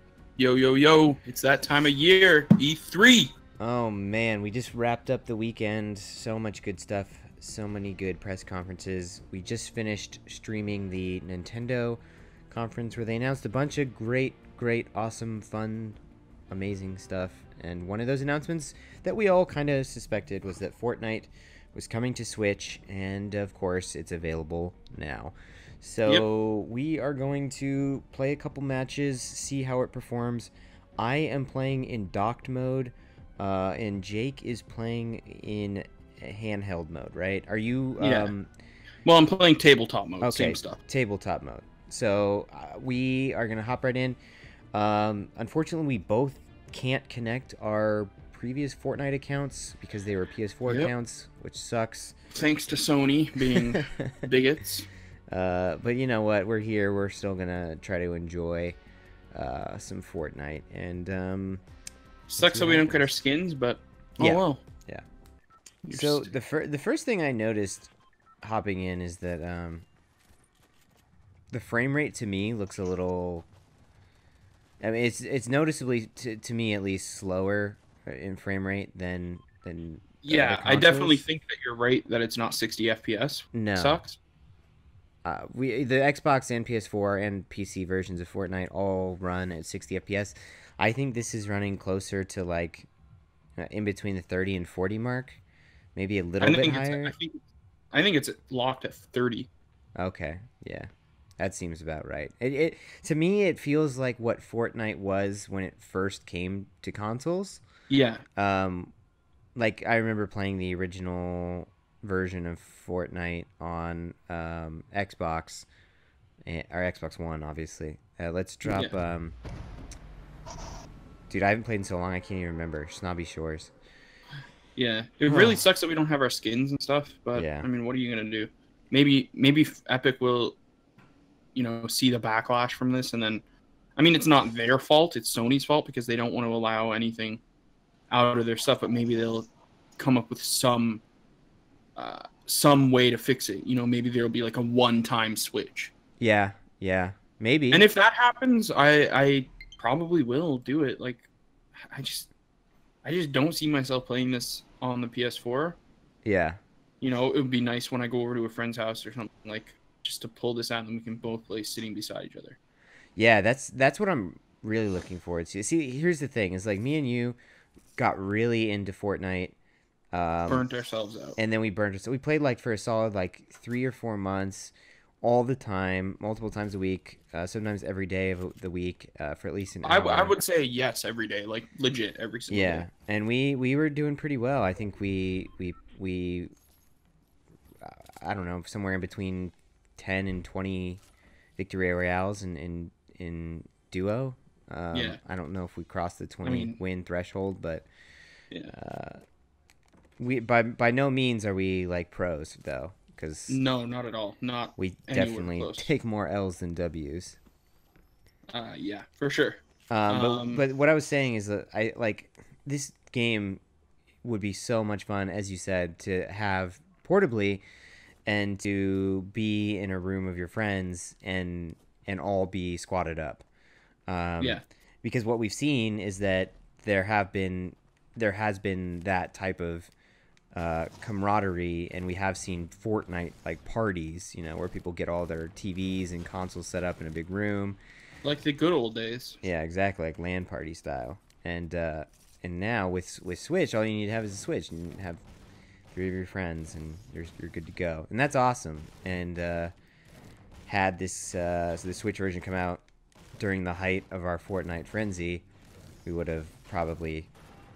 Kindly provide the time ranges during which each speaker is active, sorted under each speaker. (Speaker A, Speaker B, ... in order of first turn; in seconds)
Speaker A: 0.4-3.3, 38.0-38.3, 39.0-40.8, 52.3-54.9, 62.3-64.6, 65.8-66.3, 80.2-84.2, 96.4-97.4, 97.9-99.5, 107.9-108.2, 118.6-118.9, 124.8-130.6, 131.5-133.4, 133.9-137.4, 138.1-141.0, 141.9-145.9, 147.7-152.3, 153.0-155.8, 157.0-162.6, 170.5-171.4, 179.8-182.8, 194.9-195.2, 196.4-196.8, 203.5-205.9, 208.5-210.6, 238.2-239.4
Speaker B: 3.6-16.0, 16.5-38.5, 40.2-44.2, 44.7-52.2, 53.5-54.2, 55.3-58.8, 59.3-61.6, 62.4-63.1, 64.2-65.0, 65.9-67.9, 68.4-69.9, 71.5-73.5, 74.8-81.2, 83.5-84.0, 85.2-92.9, 93.6-95.4, 96.0-97.1, 100.0-107.6, 108.4-108.9, 109.6-115.7, 116.4-119.3, 121.3-123.7, 125.3-125.6, 127.3-127.7, 146.2-147.8, 156.2-156.6, 163.2-167.4, 168.0-169.6, 170.1-170.6, 171.4-180.4, 182.5-186.5, 187.8-191.0, 191.6-197.9, 198.7-199.2, 200.2-203.6, 204.8-207.4, 209.9-213.6, 214.2-217.6, 218.2-223.4, 224.1-229.9, 230.5-237.8, 239.4-245.2, 245.9-249.7, 250.7-252.8, 253.4-255.4, 256.1-257.3